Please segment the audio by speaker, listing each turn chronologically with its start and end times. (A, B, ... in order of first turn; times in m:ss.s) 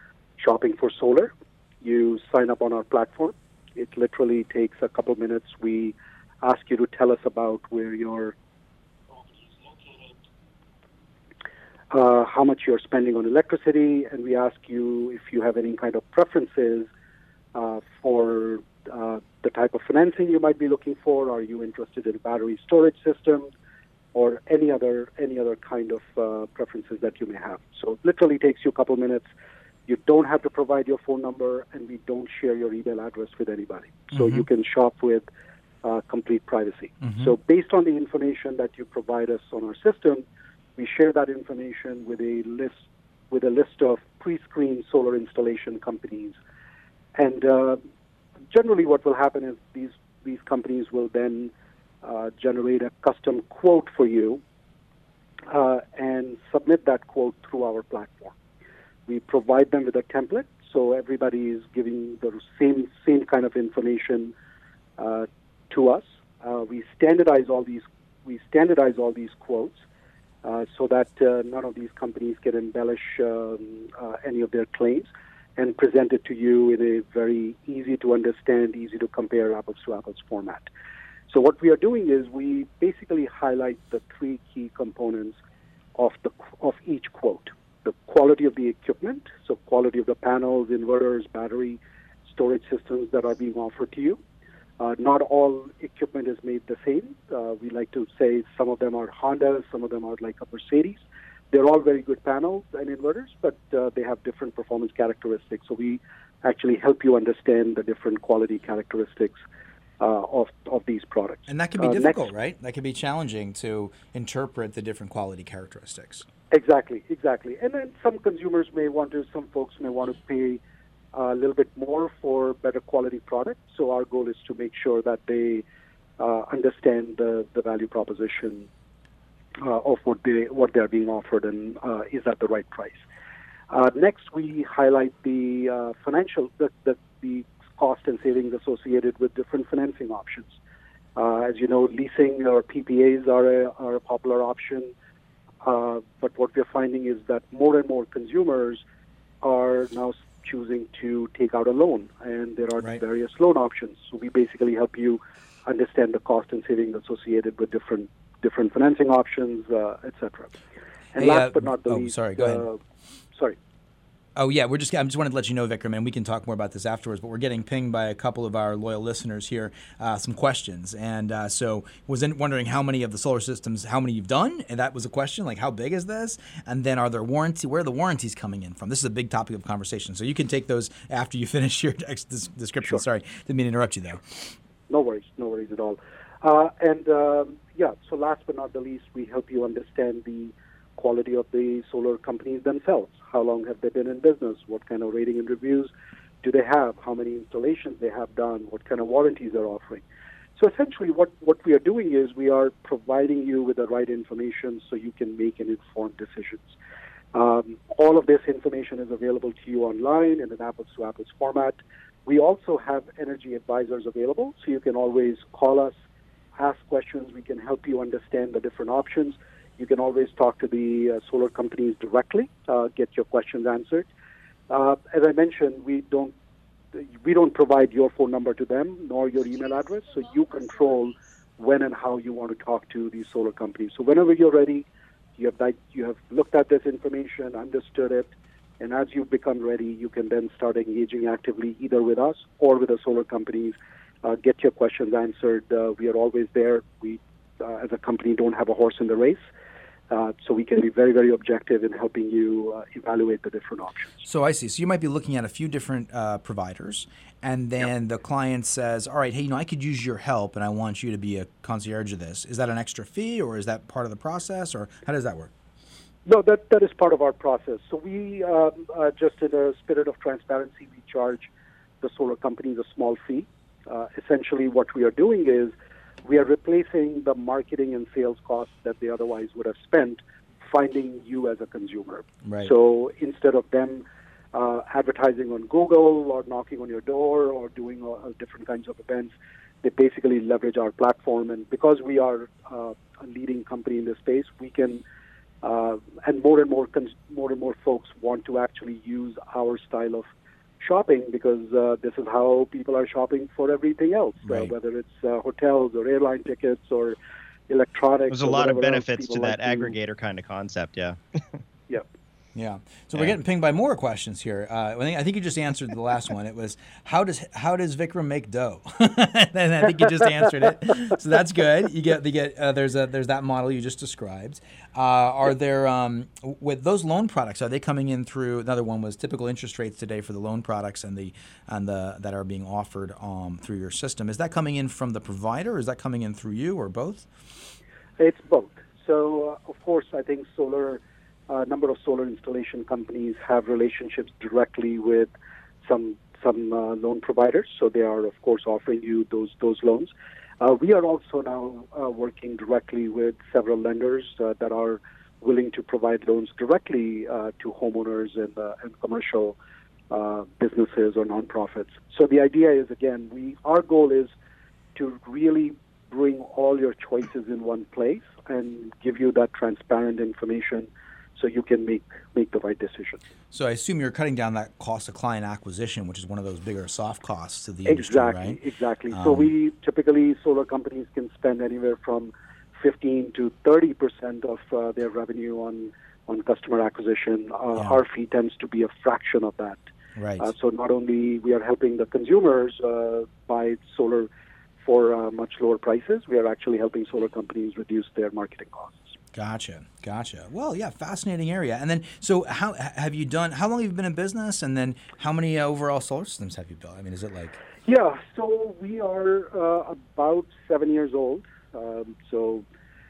0:00.4-0:08.4 A
0:09.9-0:10.1 A
0:11.9-0:16.9 A
0:17.5-0:23.5 A
0:24.1-0:29.3 A
0:29.9-0:35.3 A
0:34.1-0:34.4 B
0:35.8-0:40.2 A
0:40.8-0:42.8 A
0:43.3-0:46.4 A
0:47.2-0:47.8 A
0:48.5-0:51.5 A
0:52.0-0:54.4 A
0:55.5-0:58.3 A
0:59.1-1:04.3 A
1:05.0-1:09.8 A
1:10.4-1:20.7 A
1:21.3-1:25.4 A
1:26.0-1:34.2 A
1:34.8-1:49.4 A
1:50.0-1:52.2 A
1:51.5-1:56.2 B
1:56.5-2:00.6 A
2:01.1-2:05.6 A
2:06.2-2:08.7 A
2:09.6-2:13.0 A
2:13.7-2:20.6 A
2:21.2-2:24.9 A
2:25.6-2:28.8 A
2:29.4-2:40.5 A
2:41.2-2:42.8 A
2:41.2-2:42.6 B
2:44.4-3:04.5 B
3:04.9-3:15.9 A
3:16.4-3:20.0 A
3:20.6-3:26.7 A
3:27.3-3:35.9 A
3:36.6-3:44.1 A
3:44.7-3:46.3 A
3:46.9-4:09.4 A
4:10.1-4:14.2 A
4:14.2-4:25.5 B
4:26.3-4:31.5 A
4:32.0-4:35.7 A
4:36.2-4:55.0 A
4:42.4-4:42.7 B
4:55.6-5:00.2 A
5:00.8-5:07.2 A
5:04.5-5:04.7 B
5:07.7-5:09.9 A
5:08.3-5:11.6 C
5:12.6-5:37.3 B
5:38.2-5:45.3 A
5:45.8-5:59.6 A
6:00.1-6:04.3 A
6:05.0-6:13.2 A
6:13.5-6:18.6 B
6:17.9-6:29.8 A
6:19.1-6:19.5 B
6:30.2-6:30.5 B
6:30.4-6:34.3 A
6:34.8-6:39.1 A
6:39.3-6:47.6 B
6:47.9-6:52.6 A